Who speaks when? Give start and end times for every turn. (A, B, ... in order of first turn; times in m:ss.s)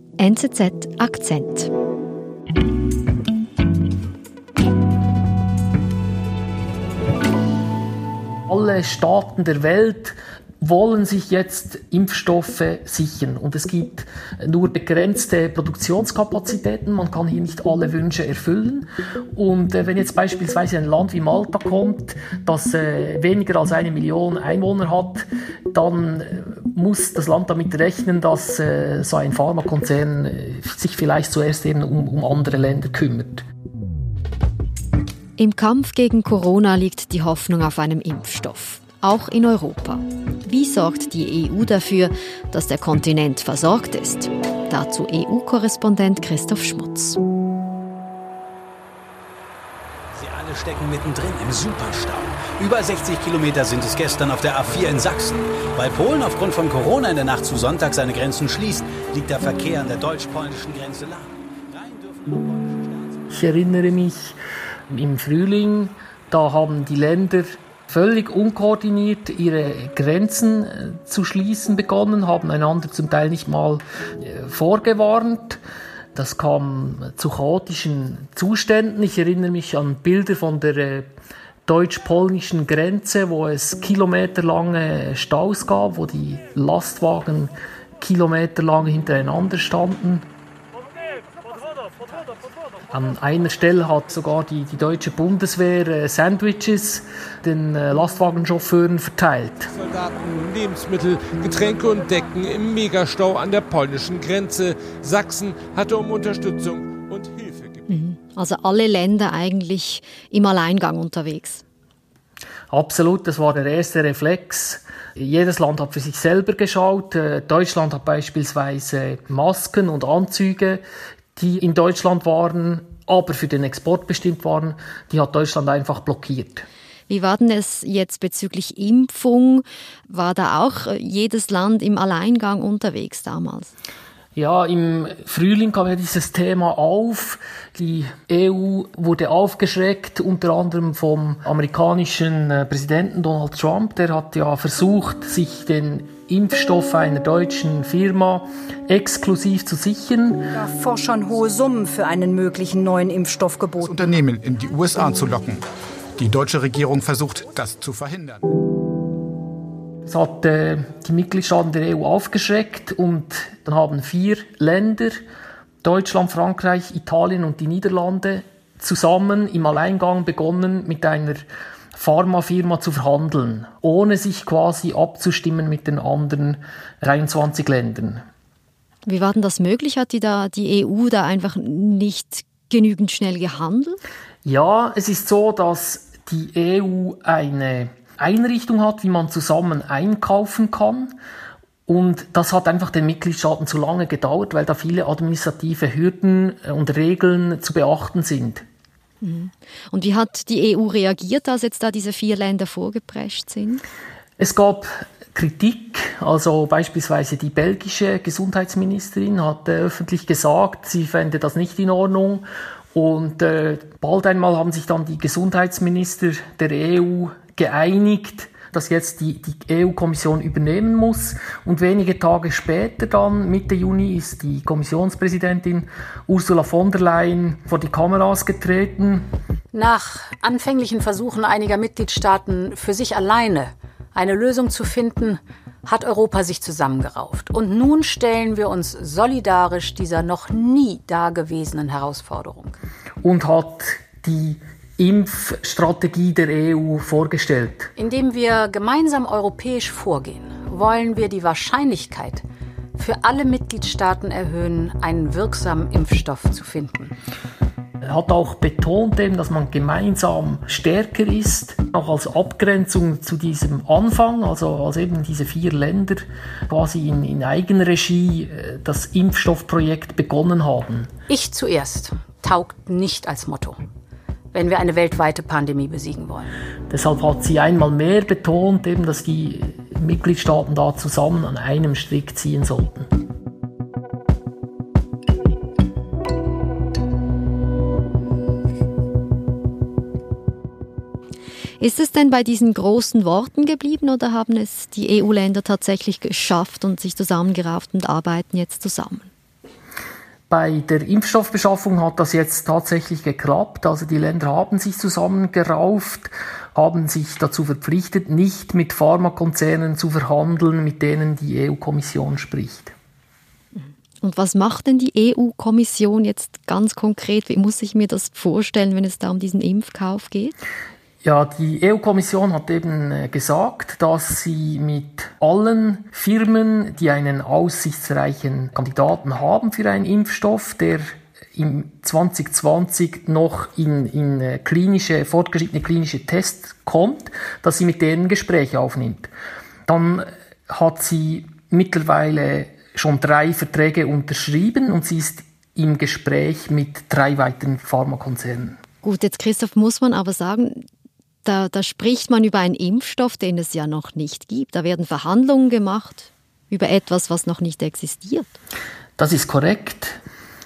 0:00.2-0:01.7 A
0:08.5-0:33.4 B
0:35.4-0:47.2 A
0:50.1-1:03.2 C
1:03.3-1:04.4 B
1:04.9-1:15.6 B
1:16.1-1:21.1 B
1:21.7-1:30.2 B
1:32.9-1:39.7 B
1:39.7-1:47.9 D
1:47.9-1:51.6 A
1:52.7-2:00.8 B
2:01.4-2:06.6 B
2:07.1-2:13.7 A
2:14.4-2:30.6 B
2:30.6-2:33.9 E
2:33.8-2:35.6 F
2:36.2-2:38.4 F
2:40.0-2:45.2 B
2:45.8-2:58.2 B
2:59.0-3:04.0 A
3:04.4-3:11.2 B
3:11.9-3:18.6 B
3:19.2-3:23.8 A
3:24.4-3:49.3 B
3:49.7-4:02.8 G
4:03.2-4:07.9 B
4:08.0-4:12.4 G
4:13.0-4:17.1 G
4:18.0-4:31.1 B
4:31.3-4:33.8 G
4:34.5-4:36.5 G
4:36.9-4:43.1 B
4:51.8-4:59.3 A
5:00.5-5:12.9 B
5:14.2-5:20.5 A
5:21.2-5:39.3 B
5:39.9-5:48.8 B
5:49.0-5:50.8 A
5:51.4-5:58.6 A
5:59.2-6:00.2 B